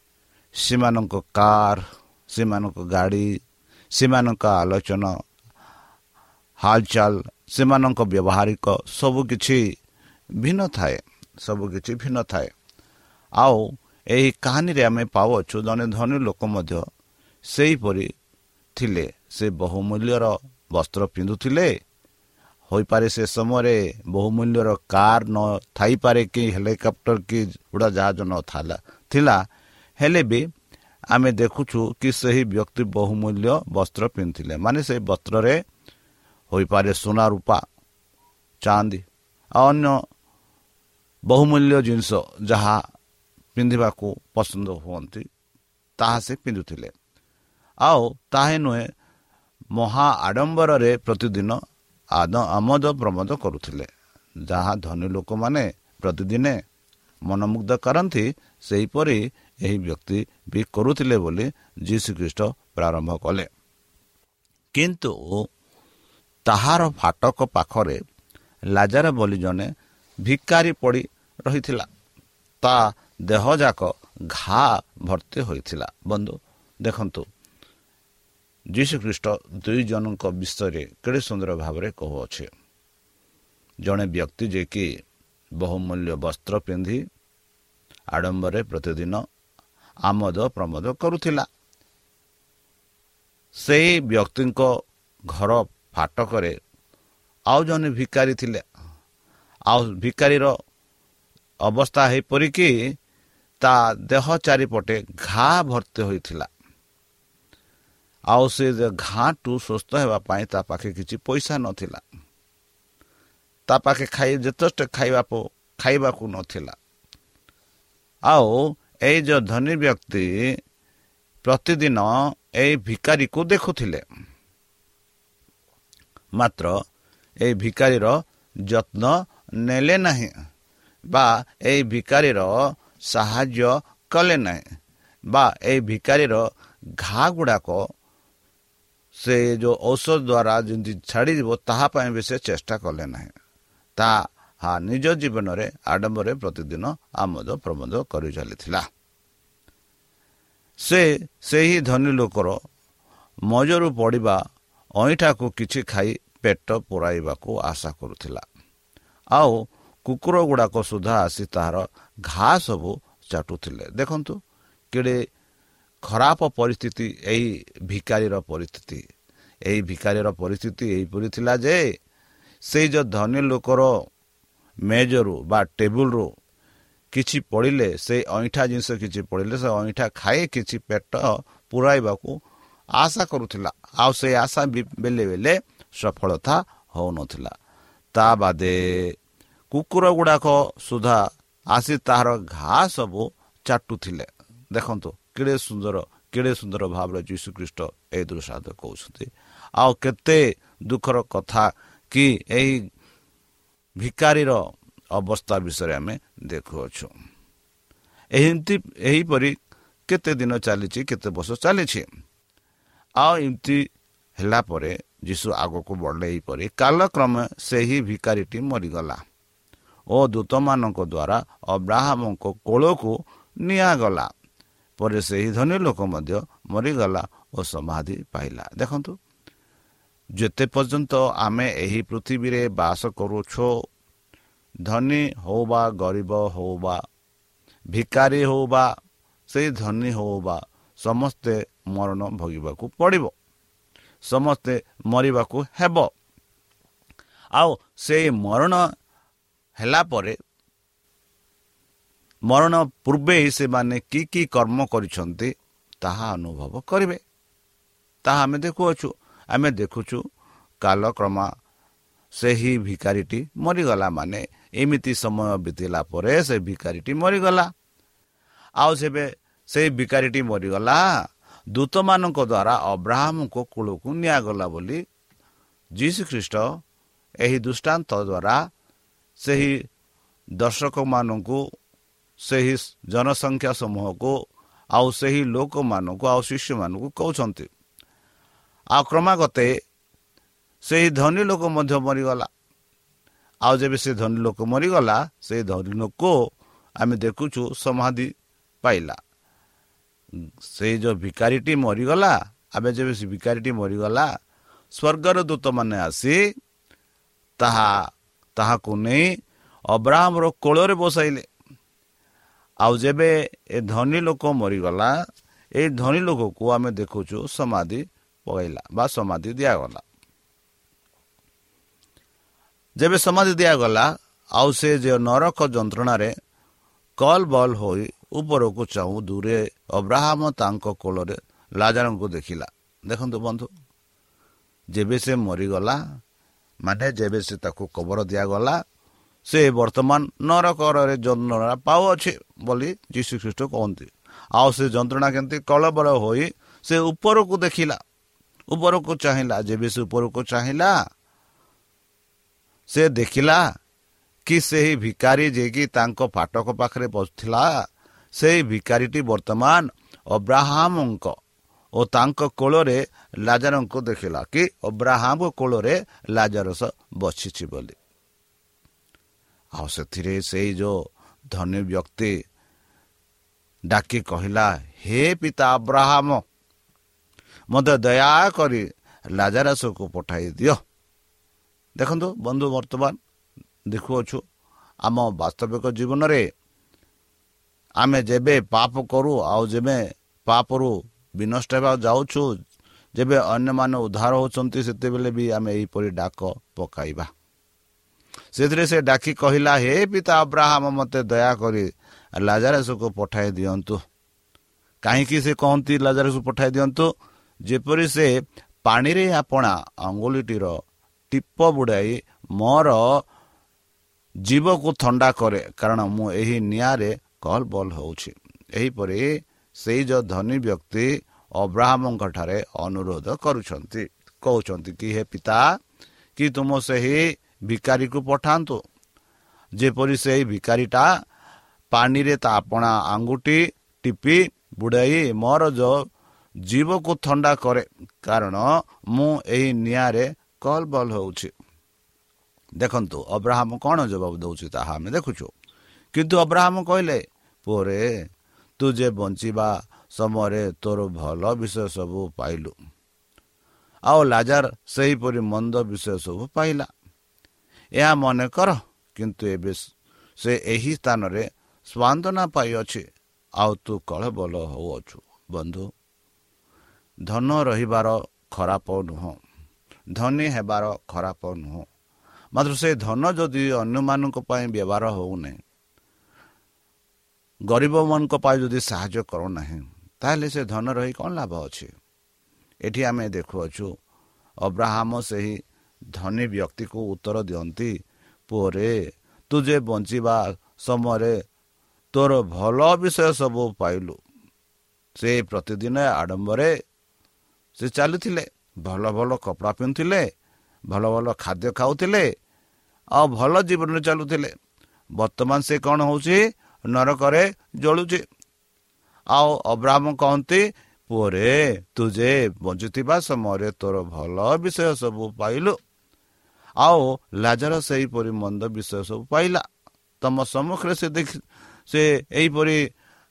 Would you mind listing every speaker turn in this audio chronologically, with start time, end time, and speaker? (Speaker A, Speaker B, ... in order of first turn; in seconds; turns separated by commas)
Speaker A: 0.6-3.4, Speaker A: 3.9-5.2, Speaker A: 6.6-9.8, Speaker A: 10.4-12.5, Speaker A: 13.4-16.9, Speaker A: 17.4-18.1, Speaker A: 18.8-21.8, Speaker A: 22.7-30.5, Speaker A: 31.1-35.6, Speaker A: 36.5-37.6, Speaker A: 38.6-40.0, Speaker A: 41.3-42.8, Speaker A: 43.5-45.3, Speaker A: 46.0-46.9, Speaker A: 47.8-48.9, Speaker A: 49.7-51.6, Speaker A: 52.1-53.9, Speaker A: 54.5-56.6, Speaker A: 57.3-63.5, Speaker A: 64.7-65.5, Speaker A: 66.5-68.0, Speaker A: 68.7-69.7, Speaker A: 70.2-71.9, Speaker A: 72.6-77.3, Speaker A: 78.7-82.5, Speaker A: 83.8-84.9, Speaker A: 85.6-87.0, Speaker A: 88.1-89.2, Speaker A: 90.1-91.5, Speaker A: 93.5-94.7, Speaker A: 95.3-96.6, Speaker A: 97.5-98.7, Speaker A: 99.7-100.5, Speaker A: 101.7-102.9, Speaker A: 103.6-106.5, Speaker A: 108.3-112.0, Speaker A: 113.7-116.8, Speaker A: 118.3-120.6, Speaker A: 121.4-124.0, Speaker A: 126.3-126.8, Speaker A: 127.4-130.3, Speaker A: 131.1-134.6, Speaker A: 135.3-136.5, Speaker A: 137.0-137.9, Speaker A: 139.2-143.3, Speaker A: 144.0-148.8, Speaker A: 150.8-152.6, Speaker A: 153.5-154.4, Speaker A: 155.0-158.4, Speaker A: 159.3-164.4, Speaker A: 164.9-165.2, Speaker A: 166.0-169.0, Speaker A: 169.7-171.8, Speaker A: 172.6-173.9, Speaker A: 174.9-176.3, Speaker A: 177.1-182.4, Speaker A: 183.0-187.6, Speaker A: 188.1-189.2, Speaker A: 189.7-202.8, Speaker A: 204.0-207.1, Speaker A: 208.3-209.6, Speaker A: 210.1-212.1, Speaker A: 213.2-219.2, Speaker A: 220.1-224.3, Speaker A: 225.0-229.2, Speaker A: 230.4-233.7, Speaker A: 234.9-237.0, Speaker A: 237.9-238.9, Speaker A: 239.5-243.3, Speaker A: 244.2-246.1, Speaker A: 247.5-248.9, Speaker A: 249.8-250.4, Speaker A: 252.5-257.2, Speaker A: 258.2-260.2, Speaker A: 260.8-261.5, Speaker A: 262.3-267.7, Speaker A: 268.8-271.2, Speaker A: 271.7-275.0, Speaker A: 276.0-276.8, Speaker A: 277.4-278.7, Speaker A: 279.4-279.8, Speaker A: 280.6-281.6, Speaker A: 282.4-284.4, Speaker A: 284.9-287.7, Speaker A: 288.9-289.7, Speaker A: 290.8-292.5, Speaker A: 293.6-296.4, Speaker A: 297.0-299.2, Speaker A: 300.7-304.3, Speaker A: 304.9-306.5, Speaker A: 307.6-309.3, Speaker A: 309.9-311.5, Speaker A: 312.8-315.1, Speaker A: 315.8-320.0, Speaker A: 323.0-326.3, Speaker A: 327.2-333.7, Speaker A: 334.9-336.0, Speaker A: 336.8-338.8, Speaker A: 339.5-348.0, Speaker A: 348.7-351.0, Speaker A: 352.9-353.6, Speaker A: 354.5-357.8, Speaker A: 358.3-361.4, Speaker A: 361.9-368.0, Speaker A: 369.8-372.4, Speaker A: 373.9-376.4, Speaker A: 377.7-380.8, Speaker A: 382.0-383.2, Speaker A: 383.9-384.4, Speaker A: 385.1-386.5, Speaker A: 388.0-392.5, Speaker A: 393.1-397.3, Speaker A: 398.5-404.0, Speaker A: 405.0-407.1, Speaker A: 407.6-413.2, Speaker A: 414.4-425.6, Speaker A: 426.4-428.8, Speaker A: 429.8-431.1, Speaker A: 431.9-436.0, Speaker A: 436.7-441.5, Speaker A: 442.8-445.5, Speaker A: 446.1-448.1, Speaker A: 448.8-452.8, Speaker A: 454.1-456.9, Speaker A: 458.0-463.1, Speaker A: 463.6-465.9, Speaker A: 467.3-469.4, Speaker A: 470.1-471.9, Speaker A: 472.5-475.6, Speaker A: 477.7-481.9, Speaker A: 482.9-483.9, Speaker A: 484.6-485.6, Speaker A: 486.1-488.0, Speaker A: 488.5-488.9, Speaker A: 489.5-491.4, Speaker A: 492.1-494.2, Speaker A: 495.2-496.7, Speaker A: 497.8-500.3, Speaker A: 500.9-502.3, Speaker A: 503.2-504.5, Speaker A: 505.2-508.2, Speaker A: 509.3-515.8, Speaker A: 516.8-519.6, Speaker A: 520.2-522.9